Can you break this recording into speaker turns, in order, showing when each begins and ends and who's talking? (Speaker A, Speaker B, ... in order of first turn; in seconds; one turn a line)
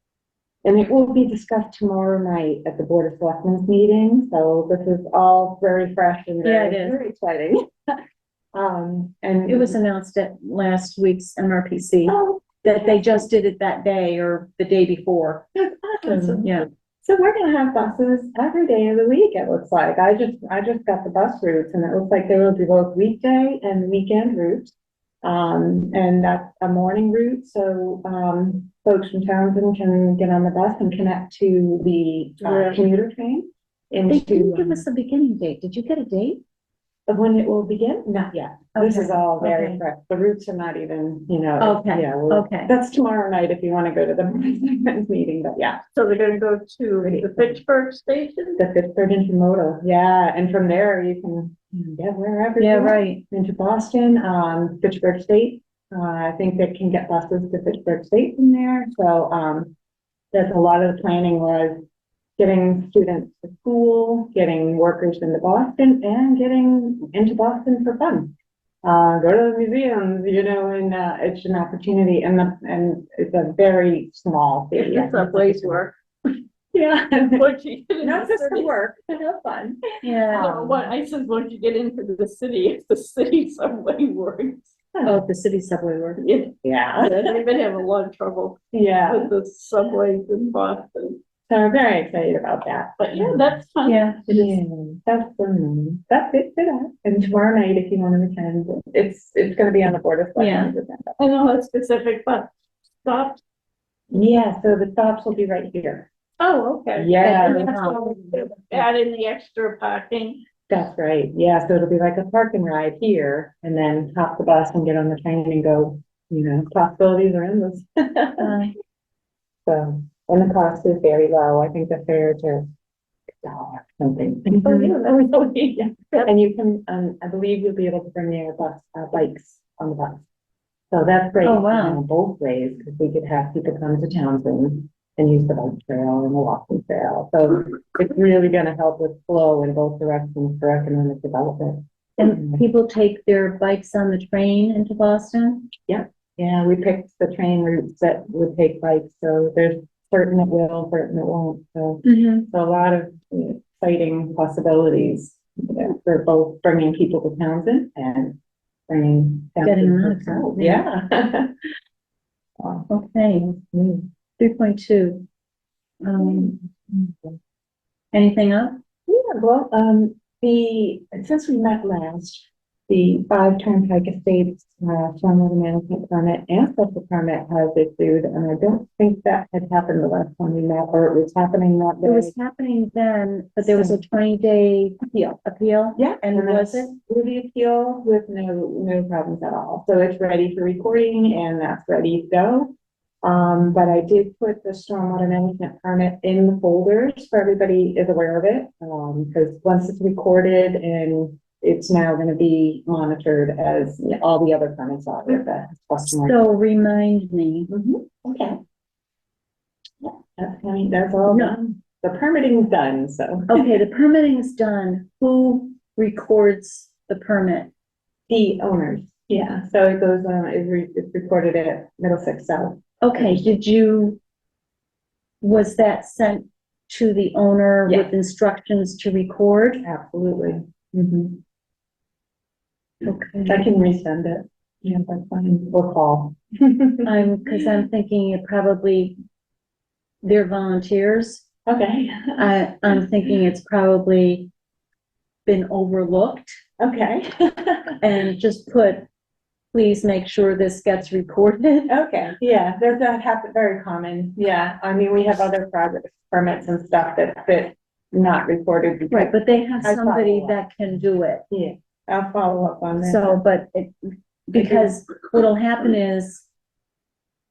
Speaker A: 0.6-8.0
Speaker B: 6.4-7.0
Speaker A: 8.5-9.8
Speaker B: 9.5-15.5
Speaker A: 12.1-13.3
Speaker A: 15.6-34.9
Speaker B: 16.0-16.7
Speaker C: 32.4-32.8
Speaker B: 34.1-36.4
Speaker A: 37.1-45.8
Speaker B: 38.8-39.8
Speaker B: 41.6-42.7
Speaker C: 45.9-48.6
Speaker A: 47.0-47.6
Speaker A: 48.6-59.7
Speaker B: 52.6-53.2
Speaker A: 60.3-61.8
Speaker A: 62.4-75.9
Speaker C: 74.8-75.9
Speaker A: 76.7-77.5
Speaker C: 77.3-78.7
Speaker A: 78.0-80.9
Speaker B: 80.0-80.5
Speaker C: 80.3-84.7
Speaker A: 84.9-85.2
Speaker B: 85.0-86.2
Speaker C: 86.2-91.2
Speaker A: 86.6-87.4
Speaker A: 88.7-89.3
Speaker A: 91.5-93.5
Speaker C: 93.0-94.1
Speaker B: 93.8-94.6
Speaker A: 94.3-101.1
Speaker B: 100.4-100.7
Speaker C: 101.2-102.5
Speaker C: 103.0-103.4
Speaker A: 104.1-106.1
Speaker C: 106.4-110.4
Speaker A: 107.0-107.9
Speaker B: 107.2-108.0
Speaker A: 110.7-118.5
Speaker B: 118.4-118.7
Speaker A: 119.7-122.7
Speaker A: 123.4-130.2
Speaker B: 124.7-124.9
Speaker A: 130.9-142.6
Speaker B: 131.4-132.0
Speaker B: 142.2-145.7
Speaker A: 145.9-158.4
Speaker B: 152.0-152.5
Speaker A: 158.9-161.5
Speaker B: 159.6-160.8
Speaker A: 162.6-164.1
Speaker B: 162.9-163.5
Speaker B: 164.4-165.2
Speaker B: 166.0-166.6
Speaker A: 166.2-167.4
Speaker B: 168.1-168.8
Speaker A: 169.1-182.3
Speaker B: 182.0-186.9
Speaker A: 183.6-184.0
Speaker A: 186.0-206.4
Speaker B: 206.1-207.7
Speaker A: 207.7-208.6
Speaker A: 210.0-213.7
Speaker B: 211.3-211.6
Speaker B: 213.5-217.7
Speaker A: 218.3-223.6
Speaker B: 223.0-224.2
Speaker B: 225.4-229.8
Speaker A: 227.9-228.1
Speaker A: 229.8-231.4
Speaker B: 233.0-233.6
Speaker A: 233.5-237.8
Speaker B: 237.1-239.2
Speaker B: 240.2-241.4
Speaker A: 241.7-243.0
Speaker B: 242.4-244.5
Speaker B: 245.5-246.6
Speaker A: 246.8-247.9
Speaker B: 248.0-249.1
Speaker B: 249.7-252.0
Speaker A: 251.9-260.6
Speaker B: 259.1-261.4
Speaker A: 261.5-263.4
Speaker B: 263.0-266.5
Speaker A: 264.6-264.9